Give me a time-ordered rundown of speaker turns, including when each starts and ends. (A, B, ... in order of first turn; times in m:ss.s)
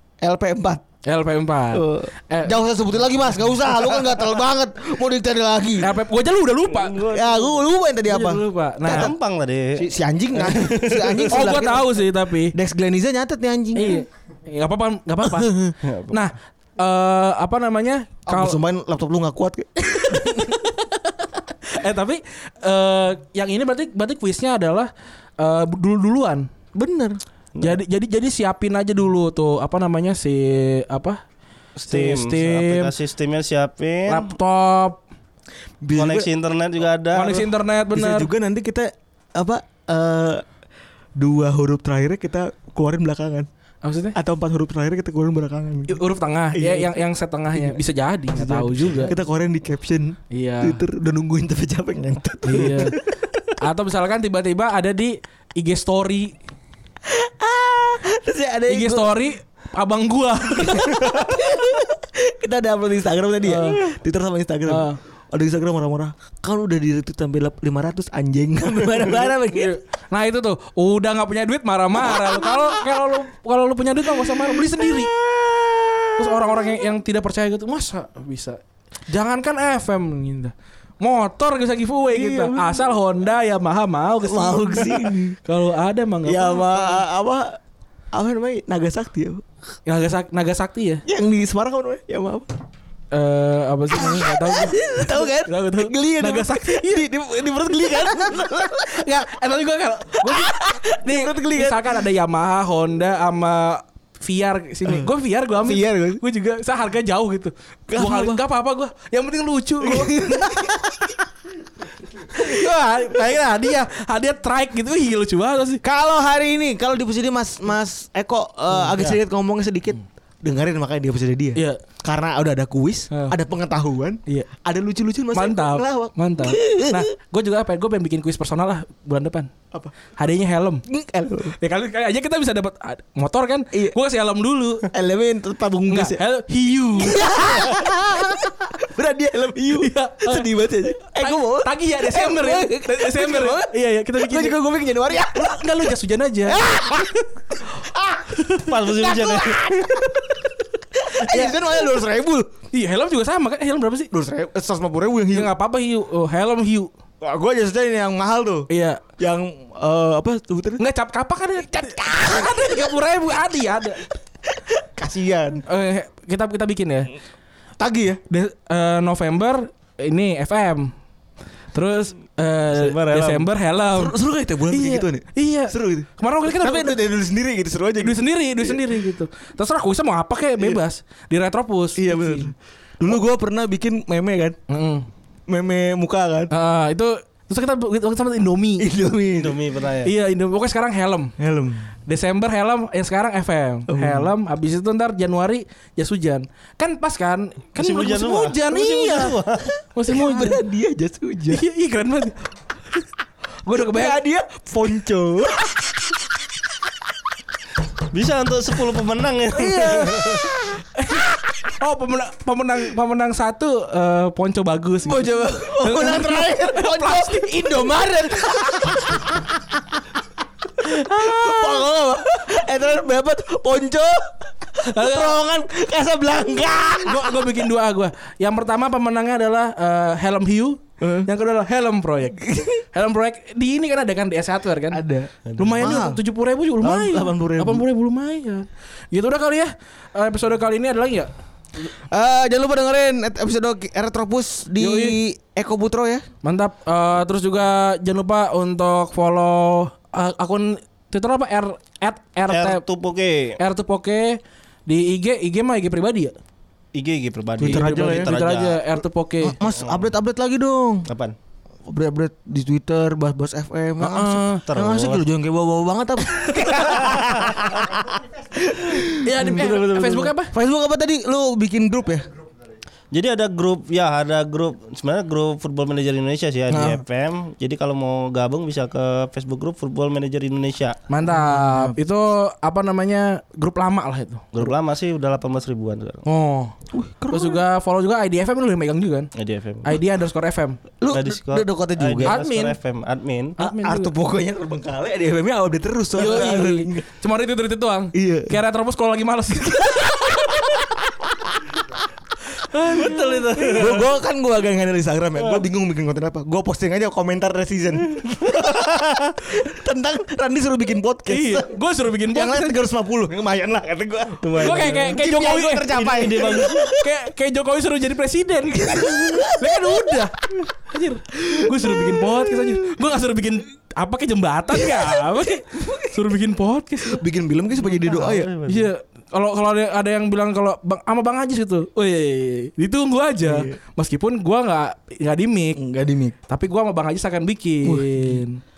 0:00.2-0:00.8 A
0:01.0-0:02.6 B
0:01.7-0:05.9 A
0:05.8-0:07.0 B
0:06.7-0:07.6 C
0:07.0-0:09.1 A
0:08.0-0:09.1 B
0:08.9-0:11.6 C
0:09.8-0:14.0 A
0:11.3-0:12.6 B
0:13.7-0:18.6 B
0:15.2-0:15.7 A
0:15.8-0:16.2 C
0:18.3-0:20.6 A
0:20.1-0:26.5 B
0:26.7-0:27.2 A
0:27.6-0:31.2 B
0:31.8-0:34.3 C
0:31.9-0:32.9 B
0:34.1-0:35.0 B
0:35.8-0:36.3 A
0:35.9-0:37.5 C
0:37.1-0:38.3 B
0:37.9-0:40.4 A
0:41.2-0:43.5 A
0:43.8-0:44.2 B
0:44.1-0:46.0 A
0:45.9-0:49.1 B
0:46.5-0:47.0 A
0:47.5-0:53.4 A
0:50.3-0:50.8 B
0:52.4-0:53.0 B
0:53.6-0:56.4 B
0:57.0-0:59.3 A
0:58.7-1:01.0 B
1:00.7-1:09.8 A
1:03.4-1:03.9 B
1:04.7-1:05.0 B
1:09.1-1:15.1 B
1:12.0-1:12.6 A
1:14.8-1:16.6 A
1:16.2-1:27.0 B
1:22.1-1:22.8 A
1:24.2-1:25.4 A
1:26.2-1:27.6 A
1:28.1-1:29.4 A
1:29.9-1:31.0 B
1:31.0-1:32.5 A
1:33.1-1:37.1 B
1:34.0-1:39.1 A
1:37.9-1:50.7 B
1:40.2-1:42.0 A
1:44.9-1:46.2 A
1:47.9-1:48.4 A
1:49.8-1:51.1 A
1:52.3-1:55.8 B
1:55.8-2:07.0 A
2:03.1-2:03.4 B
2:05.3-2:09.5 B
2:10.2-2:10.8 B
2:10.9-2:11.5 A
2:11.6-2:14.9 B
2:14.9-2:16.2 A
2:15.9-2:17.8 B
2:17.0-2:25.7 A
2:19.8-2:20.5 B
2:21.0-2:24.6 B
2:25.3-2:26.7 B
2:26.4-2:32.6 A
2:28.6-2:30.1 C
2:31.1-2:31.8 B
2:32.7-2:34.1 B
2:34.1-2:35.5 A
2:35.3-2:36.9 B
2:37.2-2:38.7 A
2:38.7-2:39.0 B
2:39.2-2:40.8 A
2:40.8-2:44.0 B
2:42.0-2:42.9 A
2:44.5-2:45.6 A
2:45.7-2:47.1 B
2:47.8-2:48.2 A
2:48.3-2:50.9 B
2:51.7-2:54.2 B
2:52.7-2:53.5 C
2:53.9-2:58.8 A
2:54.7-2:57.0 B
2:58.0-3:02.5 B
3:02.0-3:04.6 A
3:04.7-3:05.1 B
3:05.5-3:06.5 A
3:06.5-3:08.9 B
3:08.8-3:09.6 A
3:09.4-3:10.1 C
3:10.0-3:11.3 B
3:11.4-3:11.9 A
3:12.1-3:19.4 B
3:13.9-3:14.3 A
3:17.8-3:19.7 C
3:19.9-3:20.6 B
3:20.0-3:21.6 A
3:21.5-3:22.5 B
3:23.6-3:24.2 B
3:23.8-3:26.2 A
3:28.1-3:30.5 C
3:29.5-3:30.8 A
3:30.9-3:38.2 B
3:35.0-3:39.5 A
3:40.8-3:47.6 A
3:40.8-3:41.8 B
3:44.8-3:45.4 B
3:47.0-3:55.0 B
3:51.0-3:51.3 A
3:52.4-3:52.8 A
3:54.9-3:56.2 A
3:55.4-3:55.7 C
3:55.6-4:01.3 B
3:56.8-3:57.8 A
4:01.9-4:06.2 A
4:04.8-4:05.2 B
4:06.4-4:12.8 B
4:12.5-4:13.6 C
4:13.6-4:16.3 B
4:16.9-4:18.9 C
4:17.6-4:18.3 A
4:17.6-4:19.6 B
4:19.4-4:21.1 A
4:19.6-4:20.1 C
4:21.0-4:21.4 C
4:21.9-4:32.3 A
4:24.0-4:24.6 B
4:24.7-4:25.2 C
4:26.3-4:27.1 B
4:27.0-4:27.7 C
4:29.2-4:30.5 B
4:33.1-4:41.0 C
4:36.7-4:37.0 B
4:41.1-4:44.7 B
4:41.3-4:42.0 A
4:44.5-4:46.2 C
4:46.2-4:46.8 B
4:46.9-4:47.6 A
4:47.3-4:49.3 B
4:49.3-4:50.0 C
4:49.8-4:50.8 B
4:51.0-4:52.4 A
4:51.1-4:53.6 C
4:52.2-4:52.8 B
4:53.6-4:54.1 B
4:53.6-4:57.0 A
4:56.2-5:00.8 B
4:58.1-4:58.6 A
5:00.4-5:01.4 A
5:02.6-5:04.0 B
5:03.0-5:03.9 C
5:03.7-5:11.7 A
5:11.3-5:12.8 B
5:12.3-5:17.1 A
5:14.4-5:15.2 C
5:14.6-5:27.2 B
5:15.9-5:16.9 C
5:18.7-5:20.2 A
5:21.4-5:23.0 A
5:24.7-5:26.2 A
5:27.0-5:28.5 A
5:27.9-5:28.9 C
5:28.7-5:35.8 B
5:33.4-5:33.8 A
5:35.7-5:36.3 A
5:36.5-5:38.6 B
5:37.8-5:38.4 A